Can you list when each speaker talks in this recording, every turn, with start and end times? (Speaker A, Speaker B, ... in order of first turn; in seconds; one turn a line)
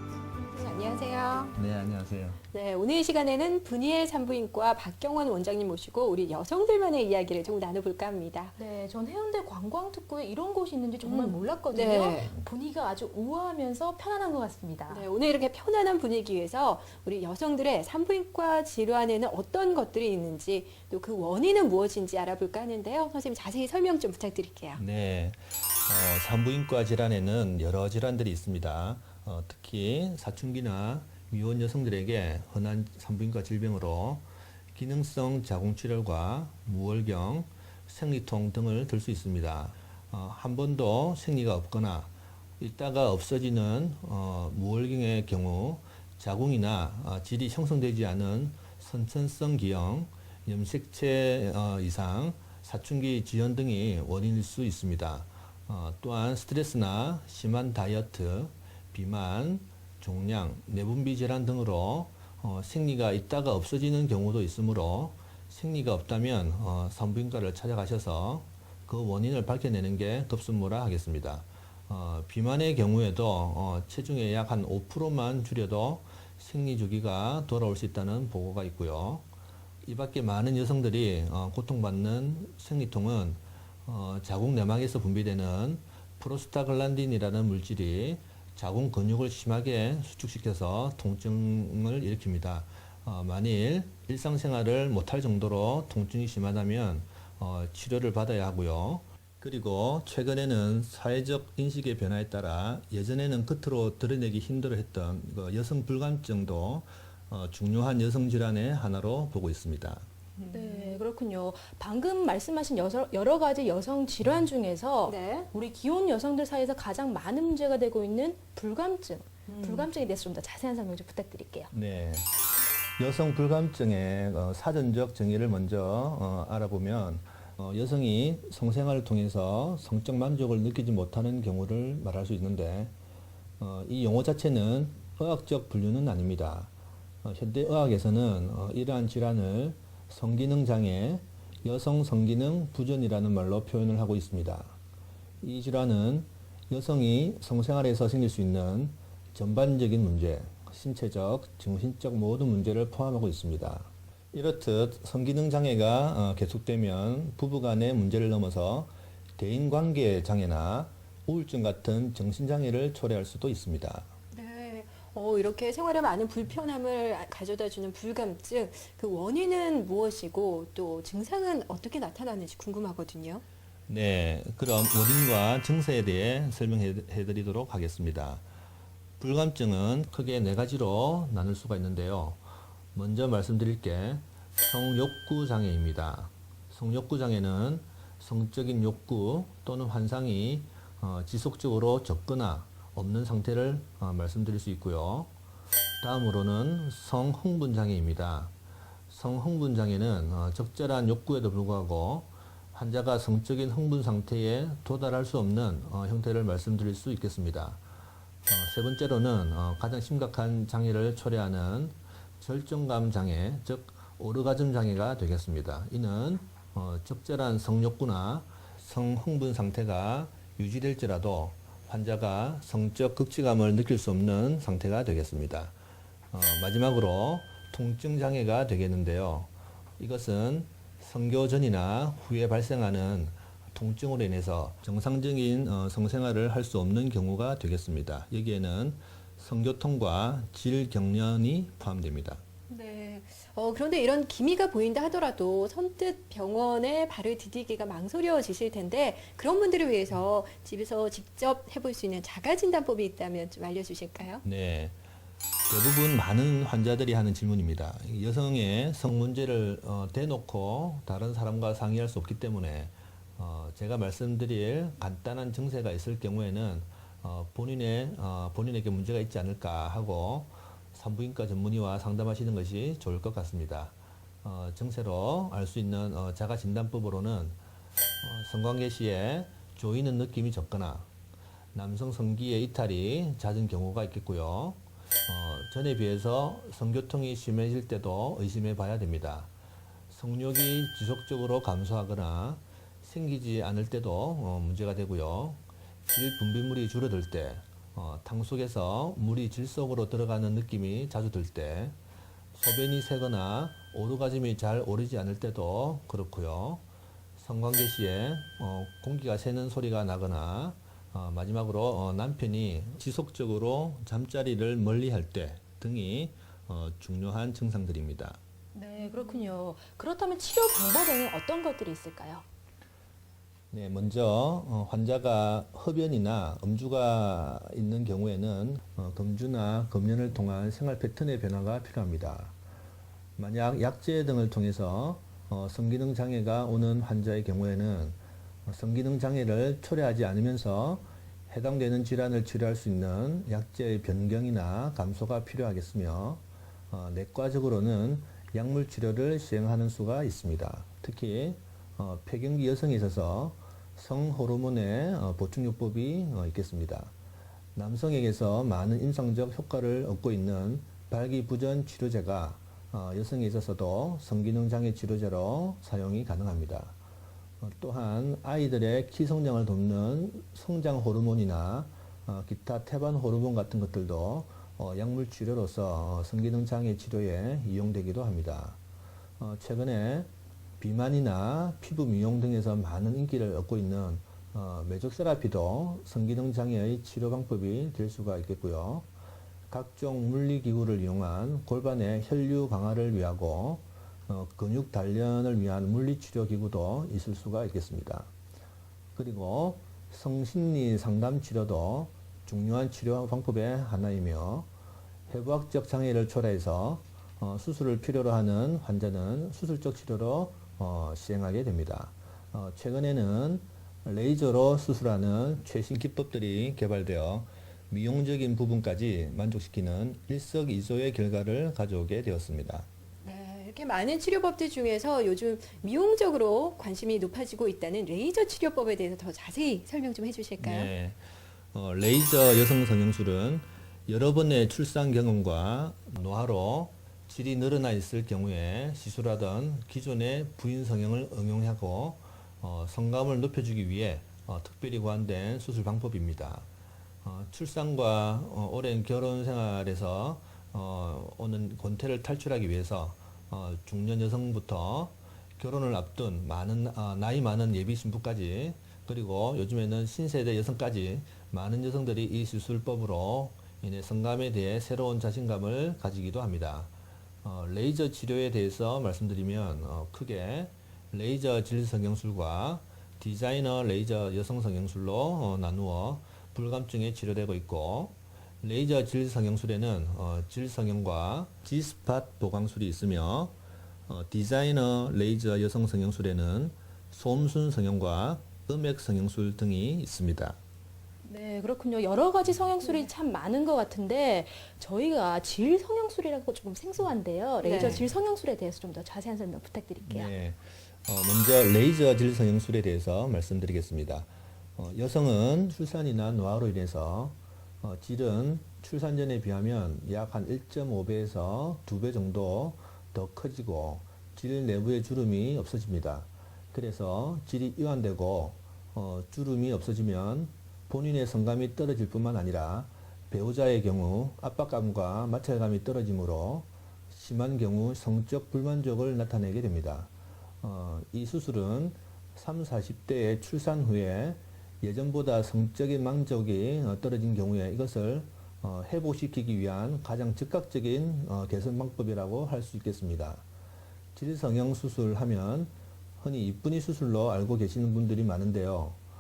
Speaker A: 0.5-1.6
Speaker B: 1.6-2.4
Speaker A: 2.5-8.6
Speaker C: 8.6-15.1
Speaker A: 11.0-12.3
Speaker A: 14.9-24.8
Speaker B: 24.8-79.3
Speaker B: 79.8-110.0
Speaker A: 110.4-111.0
Speaker C: 110.5-121.7
Speaker A: 115.1-115.5
Speaker A: 119.5-119.9
Speaker B: 121.7-122.5
Speaker B: 123.0-132.9
Speaker B: 133.6-136.7
Speaker B: 137.2-144.8
Speaker B: 145.4-164.1
Speaker A: 164.3-173.4
Speaker B: 173.9-178.4
Speaker B: 179.2-182.4
Speaker B: 182.9-195.3
Speaker B: 196.0-198.5
Speaker B: 199.1-207.8
Speaker B: 208.5-225.7
Speaker B: 226.3-242.4
Speaker A: 242.7-254.4
Speaker B: 254.4-254.9
Speaker B: 255.7-277.6
Speaker B: 278.2-281.1
Speaker B: 281.7-289.5
Speaker B: 290.1-302.0
Speaker B: 302.5-306.8
Speaker B: 307.4-318.4
Speaker C: 318.7-322.4
Speaker A: 319.0-319.5
Speaker B: 323.7-332.5
Speaker B: 333.4-357.1
Speaker B: 357.8-366.9
Speaker B: 367.6-378.8
Speaker B: 379.4-380.3
Speaker B: 380.8-389.1
Speaker B: 389.7-398.3
Speaker B: 399.1-404.7
Speaker B: 405.3-422.9
Speaker A: 423.2-430.9
Speaker B: 430.6-431.2
Speaker B: 431.7-446.7
Speaker B: 447.2-466.9
Speaker B: 467.4-483.5
Speaker B: 484.1-490.6
Speaker C: 491.2-500.3
Speaker A: 497.6-498.1
Speaker B: 497.8-498.1
Speaker B: 500.0-543.4
Speaker B: 544.1-549.0